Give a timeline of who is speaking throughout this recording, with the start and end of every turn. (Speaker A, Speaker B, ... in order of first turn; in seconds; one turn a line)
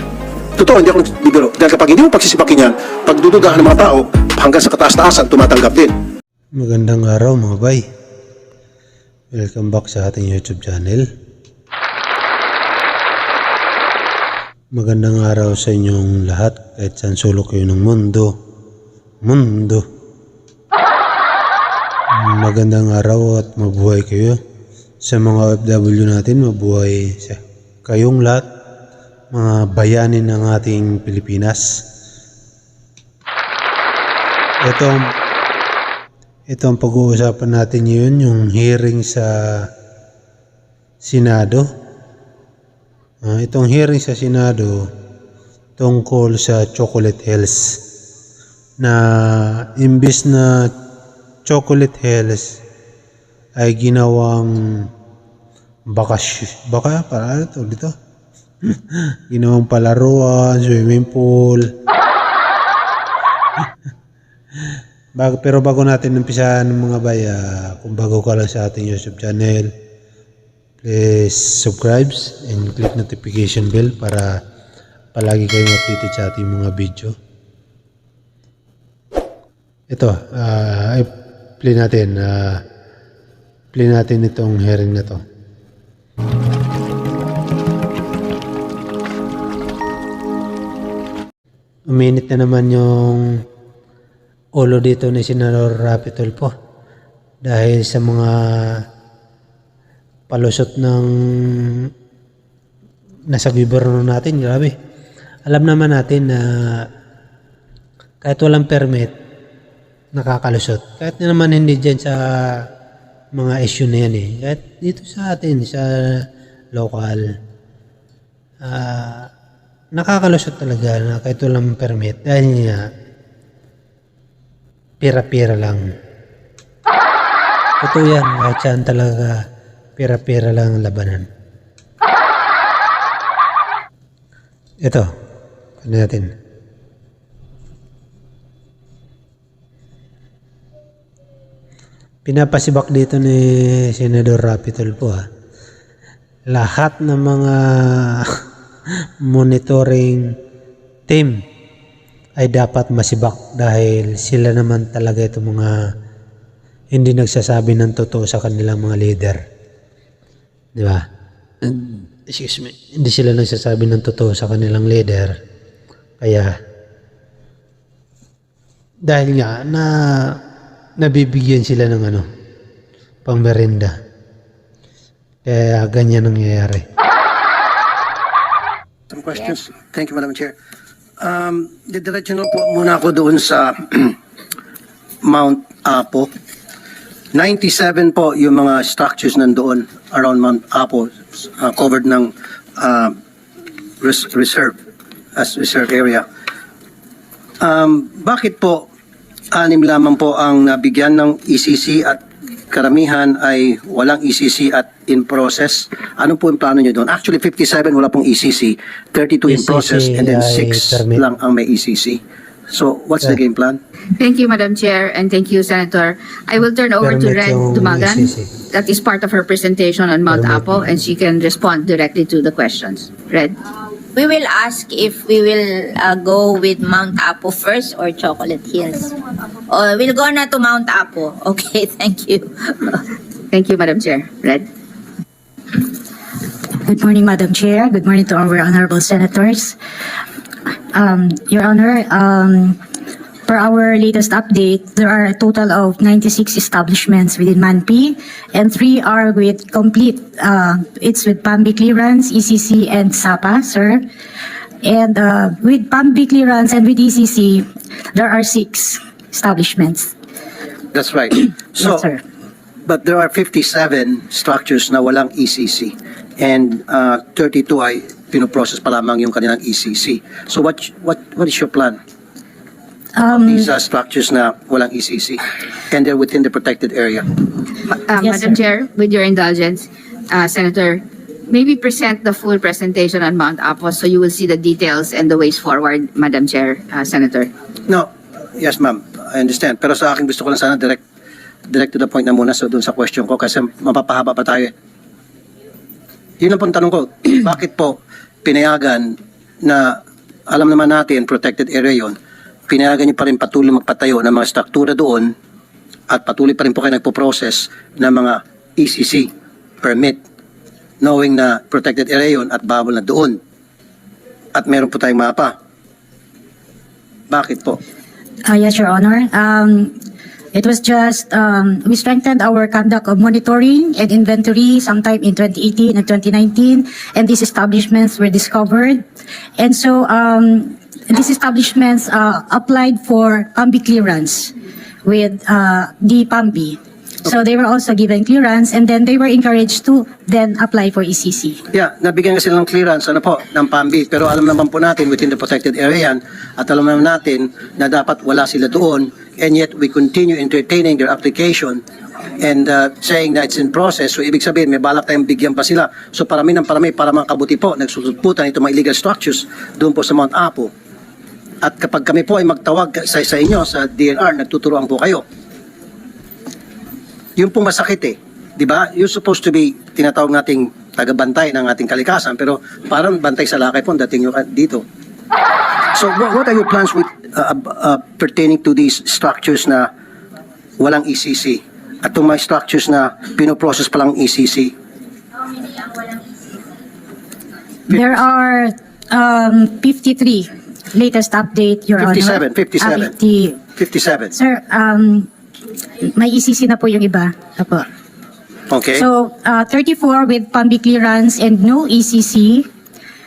Speaker A: 0.6-5.9
Speaker B: 6.6-7.8
Speaker B: 9.3-11.1
Speaker B: 14.7-18.3
Speaker B: 19.2-19.8
Speaker B: 22.1-24.4
Speaker B: 25.0-28.4
Speaker B: 29.3-31.6
Speaker B: 34.6-35.0
Speaker B: 36.5-39.3
Speaker B: 41.0-41.7
Speaker B: 43.2-44.8
Speaker B: 45.8-47.6
Speaker B: 48.8-50.7
Speaker B: 51.5-52.5
Speaker B: 53.6-54.5
Speaker B: 55.9-57.9
Speaker B: 58.7-61.7
Speaker B: 65.2-69.7
Speaker B: 70.8-74.3
Speaker B: 75.2-77.1
Speaker B: 79.9-81.1
Speaker B: 81.6-82.6
Speaker B: 83.8-85.2
Speaker B: 91.9-93.3
Speaker B: 94.6-96.5
Speaker B: 97.4-98.8
Speaker B: 100.3-101.9
Speaker B: 103.3-104.7
Speaker B: 105.5-106.8
Speaker B: 108.2-109.1
Speaker B: 110.2-112.2
Speaker B: 113.3-116.2
Speaker B: 116.7-117.2
Speaker B: 118.6-119.3
Speaker B: 120.0-122.8
Speaker B: 125.0-125.8
Speaker B: 127.8-129.3
Speaker B: 130.0-131.3
Speaker B: 135.8-136.3
Speaker B: 142.3-145.2
Speaker B: 146.5-148.3
Speaker B: 149.2-150.2
Speaker B: 151.1-151.4
Speaker B: 152.4-155.7
Speaker B: 156.9-159.4
Speaker B: 161.7-165.3
Speaker B: 166.2-166.5
Speaker B: 169.1-169.9
Speaker B: 171.0-172.3
Speaker B: 173.2-173.9
Speaker B: 175.5-176.8
Speaker A: 179.1-180.6
Speaker A: 181.2-184.2
Speaker A: 185.2-186.3
Speaker A: 187.3-193.2
Speaker A: 194.0-194.8
Speaker A: 195.4-196.3
Speaker A: 197.6-198.9
Speaker A: 199.5-213.8
Speaker B: 209.5-211.3
Speaker C: 214.2-223.6
Speaker B: 217.0-218.5
Speaker B: 220.3-220.9
Speaker D: 224.1-229.2
Speaker D: 229.7-233.0
Speaker C: 233.5-234.7
Speaker E: 236.8-239.8
Speaker E: 240.9-242.8
Speaker E: 243.5-254.0
Speaker E: 254.8-260.1
Speaker A: 260.9-262.0
Speaker E: 261.8-262.2
Speaker A: 262.9-272.0
Speaker E: 273.2-273.7
Speaker A: 273.3-277.3
Speaker C: 277.9-287.5
Speaker E: 278.2-278.6
Speaker A: 287.9-291.0
Speaker A: 291.7-294.7
Speaker A: 296.4-302.2
Speaker A: 302.7-305.3
Speaker A: 306.1-309.3
Speaker A: 309.8-310.2
Speaker A: 311.0-313.4
Speaker A: 314.6-315.6
Speaker A: 317.3-317.8
Speaker E: 318.4-319.9
Speaker E: 320.5-329.0
Speaker E: 329.6-334.5
Speaker E: 335.1-341.6
Speaker A: 341.7-351.8
Speaker A: 352.4-360.7
Speaker A: 361.6-365.2
Speaker A: 367.4-374.8
Speaker A: 375.9-379.9
Speaker A: 380.8-384.7
Speaker D: 385.5-386.2
Speaker E: 387.9-393.6
Speaker A: 392.0-393.1
Speaker A: 393.8-394.4
Speaker E: 394.3-395.3
Speaker E: 396.0-397.9
Speaker A: 398.7-399.1
Speaker E: 398.9-402.7